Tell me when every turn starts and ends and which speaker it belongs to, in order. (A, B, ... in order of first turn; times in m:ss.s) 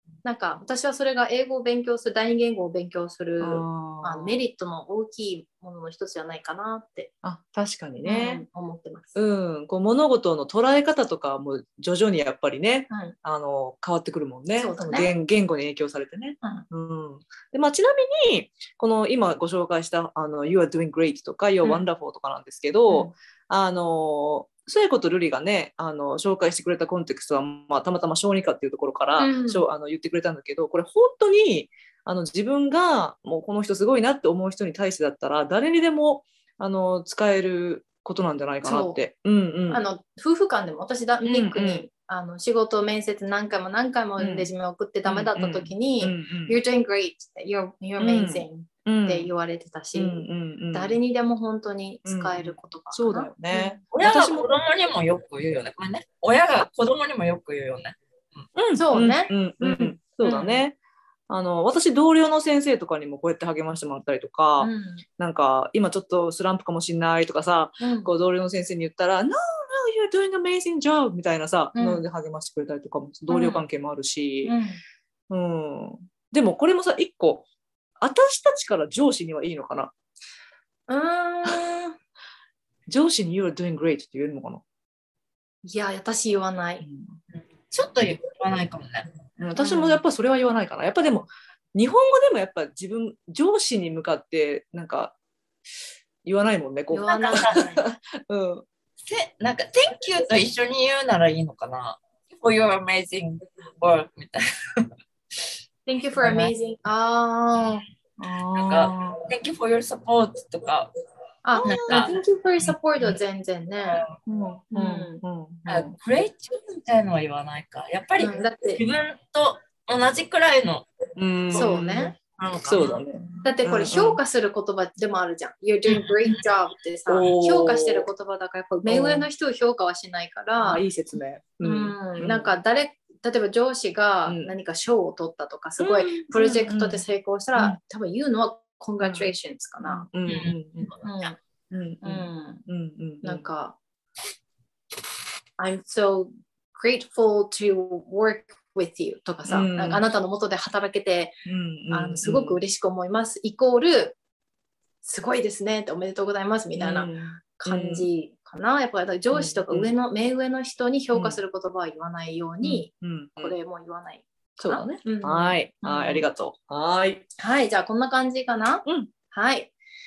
0:00.2-0:07.1 A
0:03.4-0:04.4 B
0:07.2-0:08.4 B
0:08.0-0:09.2 A
0:09.2-0:39.8 B
0:12.9-0:13.2 A
0:14.6-0:15.2 A
0:16.4-0:16.7 A
0:29.2-0:29.6 A
0:38.6-0:39.0 A
0:39.7-0:53.8 A
0:41.3-0:41.9 B
0:44.2-0:44.5 B
0:45.0-0:46.6 B
0:48.0-0:49.3 B
0:50.0-0:51.0 B
0:52.0-0:54.5 B
0:53.9-0:58.5 C
0:58.6-1:00.8 B
0:58.8-1:00.6 A
1:01.3-1:14.6 B
1:04.6-1:05.0 A
1:07.8-1:08.1 A
1:11.8-1:12.0 A
1:13.3-1:13.6 A
1:14.4-1:14.8 A
1:15.3-1:17.5 B
1:18.0-1:19.9 B
1:20.9-1:22.0 A
1:22.9-1:24.6 B
1:25.6-1:26.9 A
1:26.8-1:27.2 B
1:27.3-1:29.1 C
1:29.4-1:35.2 B
1:29.6-1:30.0 A
1:36.2-1:38.6 B
1:36.9-1:37.8 A
1:37.1-1:37.6 C
1:39.0-1:44.9 C
1:45.9-1:47.8 A
1:46.2-1:46.5 C
1:48.2-1:49.2 B
1:48.6-1:50.9 C
1:51.4-1:54.0 A
1:51.6-1:52.2 B
1:51.6-1:52.2 C
1:53.9-1:54.2 C
1:54.3-1:56.0 B
1:54.7-1:55.2 A
1:55.7-2:00.9 C
1:58.2-1:58.8 A
2:01.2-2:02.0 B
2:01.5-2:03.0 C
2:01.6-2:02.2 A
2:02.6-2:04.2 B
2:03.4-2:10.8 A
2:07.1-2:08.1 B
2:08.9-2:09.3 B
2:10.6-2:12.6 B
2:11.6-2:20.1 A
2:14.2-2:14.6 B
2:15.8-2:17.0 B
2:19.0-2:19.3 B
2:19.8-2:20.9 B
2:20.3-2:21.3 C
2:21.0-2:21.4 A
2:21.7-2:23.5 B
2:22.0-2:22.6 A
2:23.2-2:23.8 A
2:25.6-2:34.2 A
2:29.5-2:30.0 B
2:31.4-2:32.6 B
2:35.0-2:46.3 A
2:36.8-2:38.1 B
2:39.3-2:39.9 B
2:41.1-2:41.4 B
2:42.6-2:43.6 B
2:44.6-2:47.2 B
2:47.4-2:49.7 A